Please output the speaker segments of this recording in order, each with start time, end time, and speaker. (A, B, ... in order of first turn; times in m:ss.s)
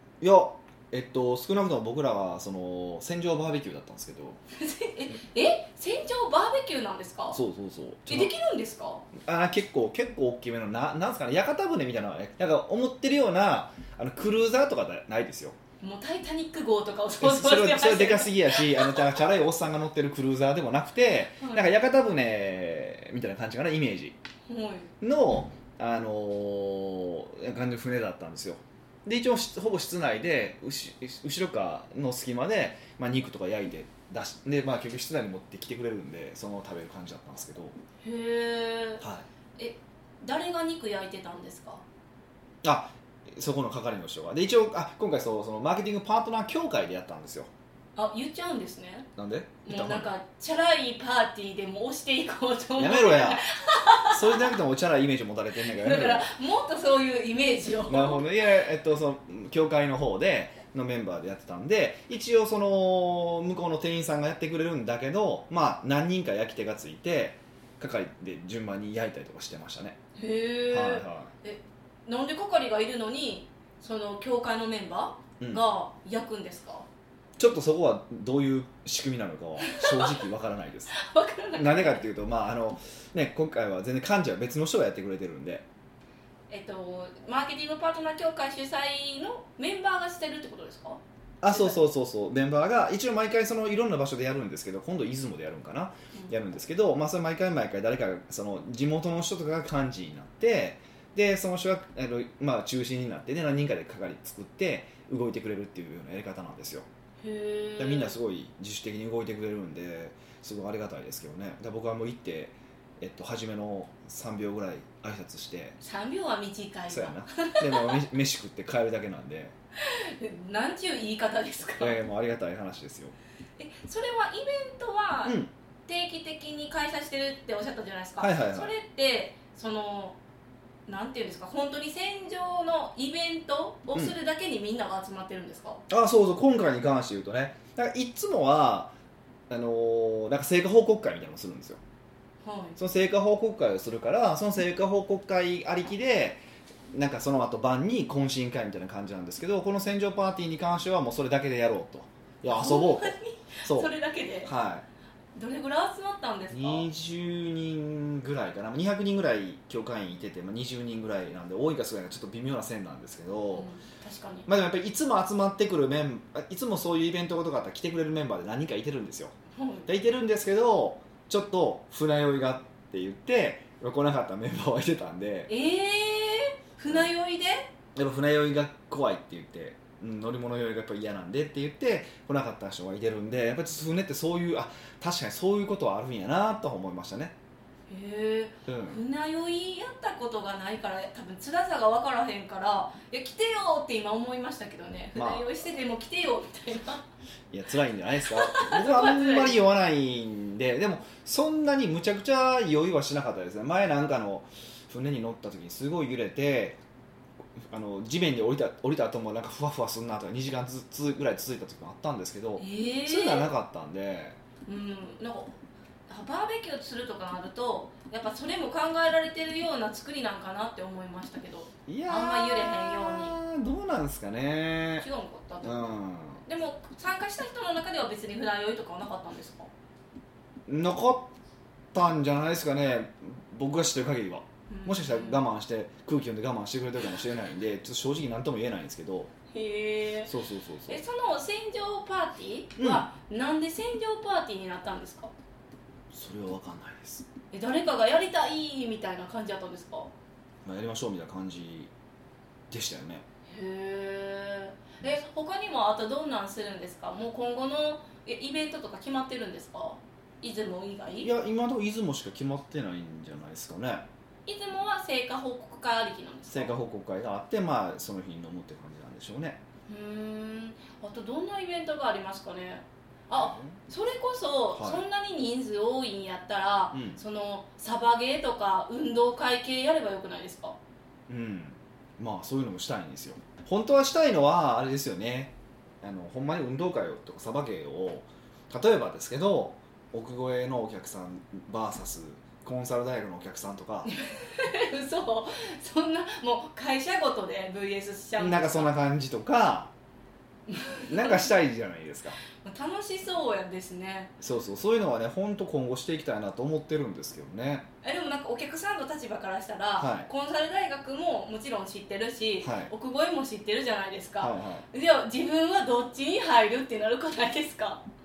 0:00.2-0:04.4 A
0:04.6-0:07.4 B
0:07.3-0:08.3 A
0:08.1-0:09.1 B
0:09.1-0:15.6 A
0:15.8-0:19.1 B
0:17.2-0:24.2 A
0:21.4-0:21.7 B
0:24.5-0:24.9 B
0:25.0-0:37.7 A
0:38.0-0:39.0 B
0:39.0-0:39.2 A
0:39.6-0:41.8 B
0:42.6-0:47.5 A
0:48.0-0:49.1 B
0:49.2-0:50.1 A
0:49.6-0:54.5 B
0:52.8-0:53.4 A
0:54.0-0:56.3 A
0:55.6-0:58.2 B
0:57.8-1:10.0 A
1:10.2-1:16.9 B
1:10.7-1:11.3 A
1:17.4-1:20.9 A
1:19.6-1:20.2 B
1:20.9-1:22.0 B
1:21.6-1:25.6 A
1:26.5-1:31.8 B
1:31.4-1:46.8 A
1:47.2-1:48.2 B
1:47.8-1:55.8 A
1:55.8-1:58.0 B
1:56.9-1:59.5 A
1:59.8-2:02.0 B
2:01.8-2:03.2 A
2:03.6-2:10.2 B
2:05.2-2:05.5 A
2:08.2-2:08.7 A
2:10.9-2:15.8 B
2:15.9-2:18.9 A
2:19.5-2:21.8 A
2:22.4-2:22.8 B
2:22.8-2:33.1 A
2:32.5-2:34.5 B
2:33.6-2:33.9 A
2:34.4-2:34.8 A
2:35.3-2:36.9 B
2:36.5-2:43.7 A
2:43.5-2:44.5 B
2:44.5-2:49.3 A
2:49.5-2:49.9 B
2:49.8-2:55.5 A
2:55.5-2:57.7 B
2:57.9-3:07.3 A
3:07.9-3:17.0 B
3:08.7-3:09.0 A
3:15.1-3:15.5 A
3:17.5-3:26.8 A
3:18.3-3:19.6 B
3:27.6-3:34.4 A
3:32.6-3:33.5 B
3:34.6-3:35.6 B
3:36.1-3:43.4 B
3:41.9-3:45.0 A
3:45.0-3:49.7 B
3:45.6-3:46.4 A
3:50.7-3:51.3 A
3:51.9-3:59.3 A
3:54.7-3:55.4 B
3:59.5-4:00.3 B
4:00.2-4:01.0 A
4:00.9-4:05.3 B
4:02.8-4:03.1 A
4:06.1-4:07.2 A
4:07.5-4:10.1 B
4:10.6-4:11.9 A
4:12.7-4:13.2 A
4:13.5-4:21.3 B
4:21.2-4:24.0 A
4:24.4-4:26.8 B
4:26.5-4:29.6 A
4:29.9-4:40.8 B
4:33.3-4:33.8 A
4:34.7-4:35.0 A
4:36.9-4:37.2 A
4:41.3-4:54.1 A
4:54.0-4:58.9 B
4:58.4-4:59.9 A
5:00.7-5:01.5 B
5:01.1-5:02.4 A
5:02.5-5:04.3 B
5:04.4-5:07.9 A
5:08.0-5:18.0 B
5:10.0-5:10.3 A
5:12.6-5:12.9 A
5:14.4-5:14.8 A